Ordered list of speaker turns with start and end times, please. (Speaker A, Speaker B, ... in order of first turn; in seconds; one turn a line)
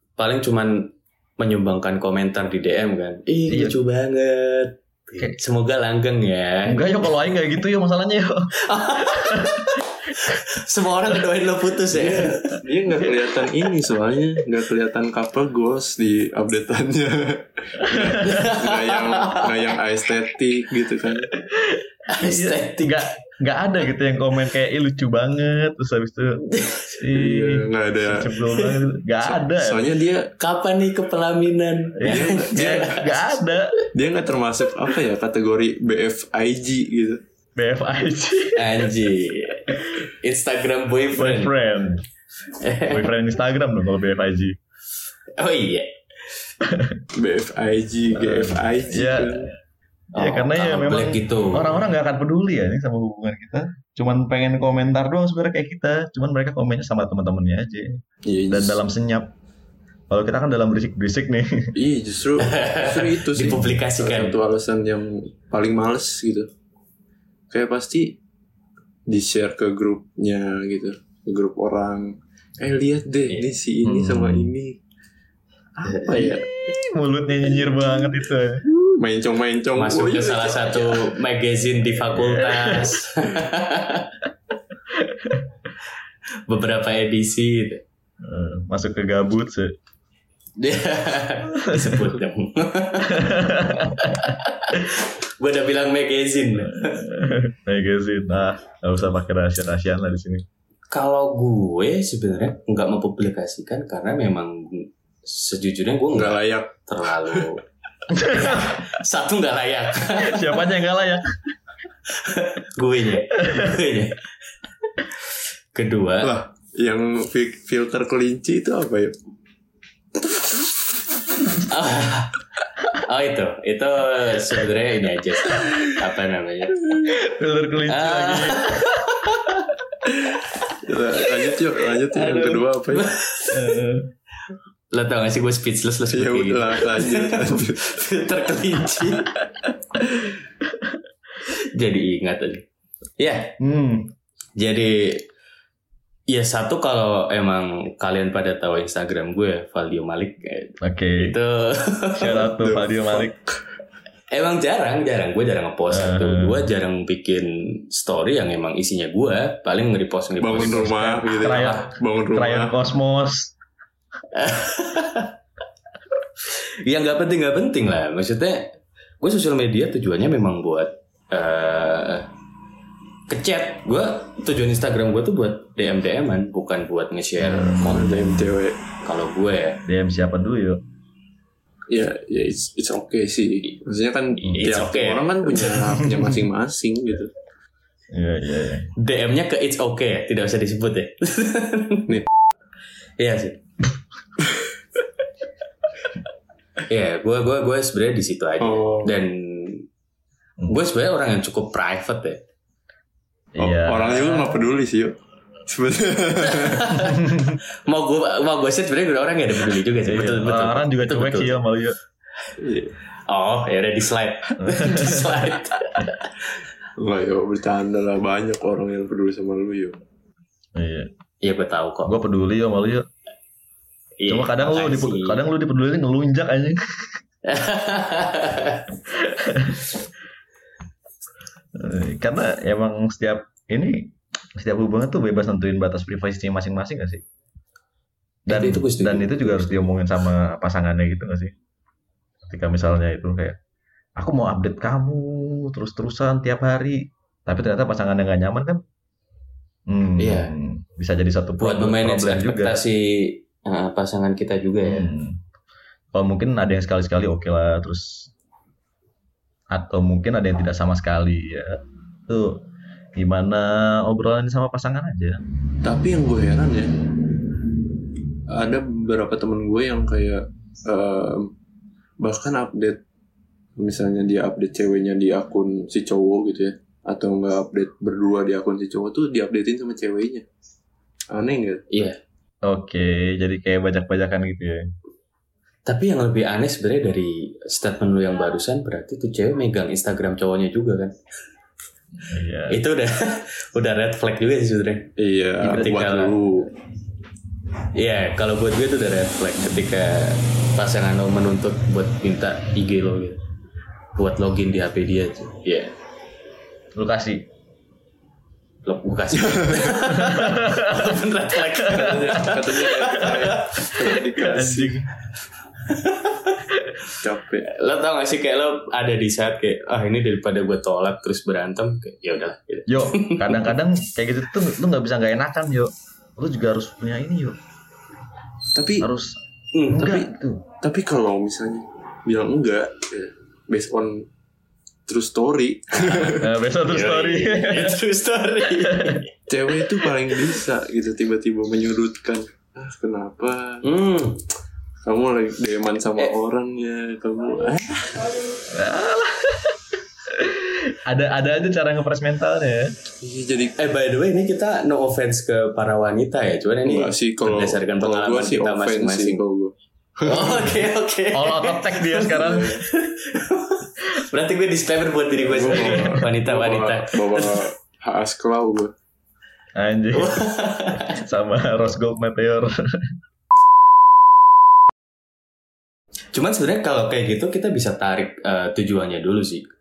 Speaker A: 0.2-7.0
Speaker B: 3.5-3.8
Speaker B: 6.7-9.8
Speaker A: 8.6-12.6
Speaker C: 11.9-21.3
Speaker B: 17.9-18.3
Speaker A: 17.9-19.8
Speaker B: 21.3-26.4
Speaker A: 22.1-23.1
Speaker A: 26.4-27.0
Speaker B: 27.0-29.9
Speaker C: 27.1-28.4
Speaker C: 29.2-30.3
Speaker A: 30.4-33.4
Speaker B: 32.0-33.7
Speaker C: 32.0-32.9
Speaker C: 33.9-37.2
Speaker B: 37.5-38.9
Speaker A: 38.5-41.5
Speaker B: 41.1-42.0
Speaker A: 42.6-43.0
Speaker B: 42.9-44.6
Speaker A: 45.4-45.9
Speaker B: 46.6-47.0
Speaker C: 47.1-49.5
Speaker B: 48.1-49.5
Speaker A: 50.1-51.8
Speaker B: 50.2-59.3
Speaker C: 58.2-58.8
Speaker B: 60.1-61.7
Speaker C: 61.7-66.5
Speaker A: 62.4-64.4
Speaker C: 67.5-68.2
Speaker C: 69.1-74.8
Speaker B: 73.8-74.5
Speaker C: 75.8-76.5
Speaker A: 75.8-76.3
Speaker B: 76.1-78.6
Speaker C: 78.8-81.1
Speaker A: 79.8-84.2
Speaker B: 82.0-83.0
Speaker B: 84.9-85.4
Speaker A: 86.5-87.8
Speaker B: 88.2-89.8
Speaker A: 90.6-97.0
Speaker B: 91.5-92.2
Speaker B: 93.0-94.3
Speaker B: 96.6-100.4
Speaker A: 100.9-107.6
Speaker C: 106.1-107.5
Speaker B: 108.1-108.9
Speaker A: 108.2-110.6
Speaker B: 110.2-111.4
Speaker A: 112.1-114.3
Speaker B: 113.4-113.8
Speaker A: 115.7-116.3
Speaker C: 116.2-119.1
Speaker A: 121.5-122.3
Speaker A: 122.9-126.8
Speaker B: 127.1-128.9
Speaker A: 127.9-129.7
Speaker C: 130.8-133.1
Speaker A: 132.1-133.8
Speaker B: 133.5-134.1
Speaker A: 134.9-139.4
Speaker C: 136.1-138.0
Speaker A: 141.7-142.7
Speaker A: 143.2-143.5
Speaker B: 143.6-144.1
Speaker A: 144.6-145.2
Speaker A: 146.3-152.5
Speaker B: 150.8-151.4
Speaker B: 152.2-153.3
Speaker C: 152.5-153.4
Speaker A: 154.3-161.9
Speaker B: 155.9-156.7
Speaker C: 160.4-162.7
Speaker B: 160.6-163.5
Speaker A: 164.3-165.3
Speaker A: 166.5-172.3
Speaker A: 173.3-178.3
Speaker B: 177.4-178.3
Speaker C: 177.6-178.8
Speaker A: 179.0-179.8
Speaker B: 179.8-180.8
Speaker C: 181.9-187.3
Speaker A: 184.4-185.7
Speaker B: 185.9-186.4
Speaker B: 188.1-188.9
Speaker A: 188.9-192.2
Speaker A: 193.2-193.6
Speaker A: 196.9-199.9
Speaker C: 198.6-199.1
Speaker A: 200.7-202.4
Speaker B: 203.5-204.6
Speaker C: 203.6-205.1
Speaker C: 205.7-207.0
Speaker A: 206.4-207.3
Speaker B: 207.1-207.6
Speaker A: 207.8-211.6
Speaker B: 210.1-212.0
Speaker C: 212.6-212.9
Speaker A: 213.3-216.3
Speaker B: 214.6-215.4
Speaker C: 217.0-220.0
Speaker B: 220.8-221.1
Speaker A: 221.4-222.2
Speaker B: 222.0-223.1
Speaker A: 224.2-225.4
Speaker B: 224.3-227.2
Speaker A: 227.4-228.9
Speaker B: 229.1-229.9
Speaker B: 231.7-237.2
Speaker B: 238.5-241.5
Speaker A: 238.5-239.9
Speaker B: 242.4-243.6
Speaker B: 244.2-248.8
Speaker B: 249.9-252.8
Speaker A: 250.2-250.5
Speaker A: 251.6-255.1
Speaker B: 254.8-255.4
Speaker B: 256.1-258.3
Speaker B: 259.7-262.6
Speaker B: 263.1-265.4
Speaker C: 265.8-267.1
Speaker C: 268.5-271.5
Speaker C: 272.2-273.0
Speaker C: 273.8-280.4
Speaker C: 281.3-281.8
Speaker A: 281.9-282.2
Speaker B: 282.6-284.9
Speaker A: 285.9-291.1
Speaker B: 292.2-292.8
Speaker A: 292.7-295.1
Speaker C: 295.2-296.7
Speaker B: 295.6-296.0
Speaker A: 295.6-296.4
Speaker A: 297.9-303.4
Speaker A: 304.1-305.9
Speaker B: 306.9-307.4
Speaker A: 308.8-314.2
Speaker C: 309.5-309.8
Speaker B: 310.0-311.2
Speaker C: 311.9-315.0
Speaker B: 311.9-312.4
Speaker B: 314.0-315.1
Speaker A: 315.8-316.6
Speaker C: 317.1-317.7
Speaker A: 317.6-323.7
Speaker B: 322.9-327.6
Speaker C: 328.7-329.1
Speaker B: 329.0-329.4
Speaker A: 329.7-330.2
Speaker B: 329.9-330.6
Speaker C: 330.0-330.3
Speaker C: 330.8-334.2
Speaker C: 335.1-336.5
Speaker A: 335.9-340.6
Speaker B: 336.4-338.0
Speaker B: 338.7-339.2
Speaker C: 339.5-343.8
Speaker A: 343.8-344.4
Speaker C: 345.0-348.3
Speaker B: 348.7-352.9
Speaker C: 353.2-353.8
Speaker A: 353.8-359.4
Speaker C: 356.8-360.7
Speaker A: 360.2-367.6
Speaker B: 361.3-362.8
Speaker C: 362.4-362.7
Speaker C: 365.4-368.9
Speaker B: 365.8-366.1
Speaker B: 369.7-373.1
Speaker A: 370.1-371.2
Speaker A: 376.3-379.6